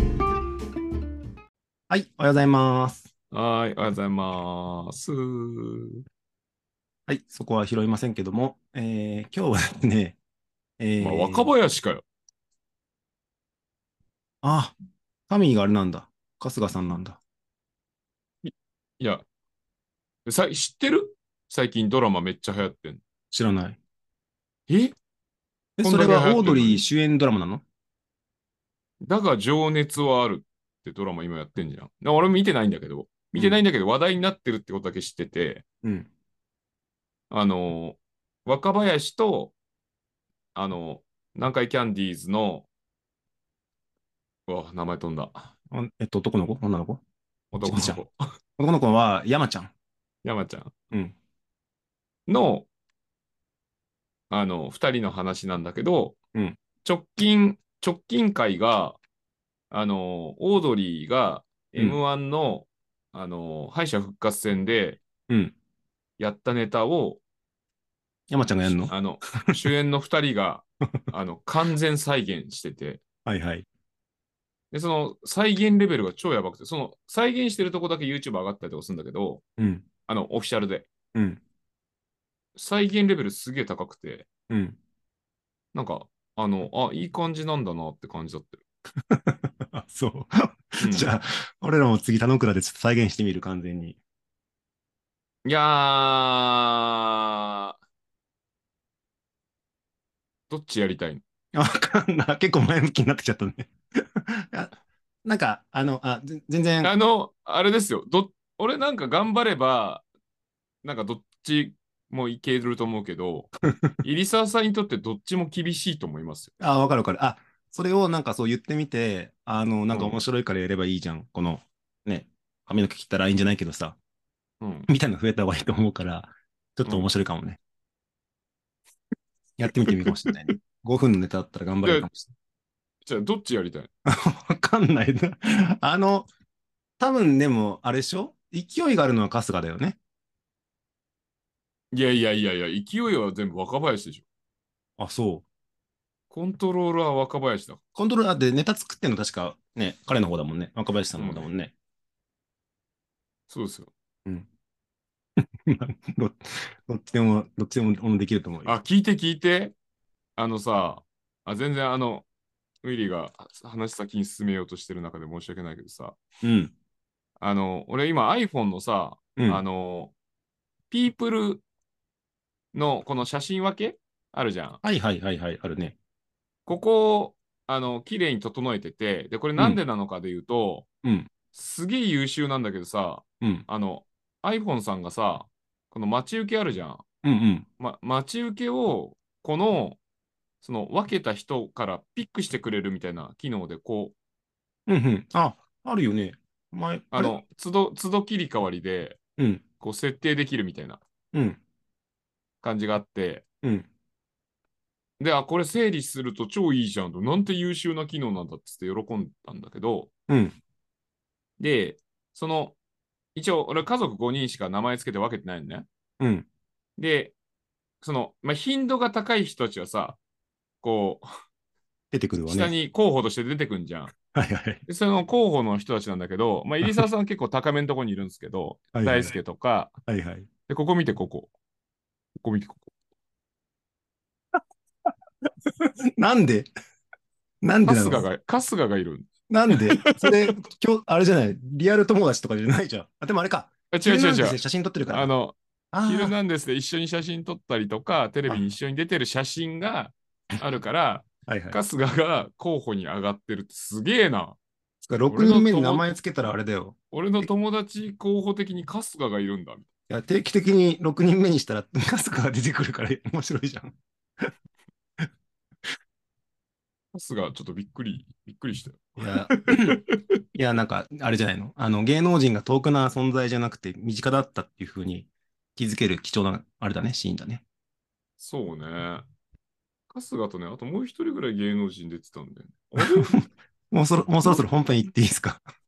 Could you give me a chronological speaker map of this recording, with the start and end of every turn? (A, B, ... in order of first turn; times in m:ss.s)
0:01.9-0:03.1 A
0:03.3-0:06.0 B
0:07.1-0:10.2 A
0:10.8-0:11.5 A
0:11.0-0:12.0 B
0:14.4-0:14.7 A
0:15.3-0:17.2 A
0:18.4-0:19.2 B
0:20.2-0:23.0 B
0:23.3-0:23.8 A
0:24.7-0:24.9 B
0:25.8-0:27.6 A
0:25.8-0:26.8 B
0:29.0-0:35.6 B
0:33.3-0:33.6 A
0:35.8-0:36.1 A
0:37.3-0:39.5 B
0:40.5-0:42.7 B
0:44.5-0:45.5 B
0:45.7-0:47.0 A
0:47.5-0:48.2 B
0:47.6-0:48.0 A
0:48.6-0:49.7 A
0:50.2-0:50.8 B
0:52.3-0:52.7 B
0:54.3-0:56.2 B
0:56.8-0:59.0 B
0:59.7-1:05.0 B
1:05.3-1:05.5 A
1:06.2-1:07.2 B
1:08.3-1:08.9 A
1:08.7-1:13.0 B
1:13.2-1:13.6 A
1:14.7-1:19.4 B
1:19.6-1:19.8 A
1:20.1-1:20.9 B
1:21.1-1:21.4 A
1:22.6-1:24.3 B
1:24.5-1:24.8 A
1:25.7-1:28.6 B
1:29.1-1:34.0 A
1:30.8-1:31.1 B
1:35.4-1:37.8 B
1:40.5-1:41.2 B
1:41.5-1:46.9 A
1:46.8-1:50.0 B
1:50.8-1:56.5 B
1:56.6-2:04.0 A
1:59.9-2:00.2 B
2:04.6-2:04.9 B
2:04.9-2:07.6 A
2:09.6-2:12.3 A
2:09.8-2:10.3 B
2:11.8-2:12.1 B
2:13.0-2:13.9 B
2:14.0-2:16.3 A
2:17.0-2:20.0 A
2:21.9-2:24.2 B
2:25.0-2:25.4 A
2:26.3-2:27.8 B
2:27.9-2:31.7 A
2:31.2-2:31.5 B
2:33.5-2:33.9 B
2:35.4-2:38.7 A
2:38.6-2:39.7 B
2:40.4-2:42.2 B
2:42.8-2:46.2 B
2:46.4-2:46.7 A
2:47.4-2:50.1 B
2:49.4-2:49.6 A
2:50.9-2:51.6 B
2:52.7-2:54.8 B
2:54.8-2:56.0 A
2:56.6-3:00.8 B
3:01.0-3:01.3 A
3:01.5-3:07.0 B
3:03.4-3:03.6 A
3:07.2-3:07.6 A
3:07.8-3:10.0 B
3:10.6-3:14.1 B
3:14.9-3:17.3 A
3:17.1-3:19.2 B
3:19.4-3:19.6 A
3:19.8-3:21.0 B
3:21.3-3:21.6 A
3:22.6-3:23.4 B
3:25.2-3:30.1 B
3:30.3-3:30.6 A
3:31.6-3:32.8 B
3:33.3-3:35.8 B
3:36.2-3:36.5 A
3:37.0-3:37.3 B
3:38.0-3:40.2 B
3:40.8-3:41.3 B
3:42.1-3:42.7 A
3:42.5-3:44.1 B
3:44.3-3:44.8 A
3:44.9-3:49.9 B
3:48.9-3:49.3 A
3:50.1-3:50.5 A
3:50.7-3:51.5 B
3:52.4-3:52.9 B
3:55.6-3:56.7 A
3:57.6-3:58.2 A
3:57.8-4:00.5 B
3:59.5-4:05.3 A
4:03.9-4:14.6 B
4:05.9-4:06.3 A
4:11.5-4:11.8 A
4:15.0-4:17.5 A
4:15.3-4:16.0 B
4:17.1-4:19.8 B
4:20.1-4:24.0 A
4:27.1-4:30.4 B
4:29.2-4:30.0 A
4:30.6-4:37.6 A
4:38.4-4:39.2 B
4:40.1-4:43.4 B
4:43.1-4:45.6 A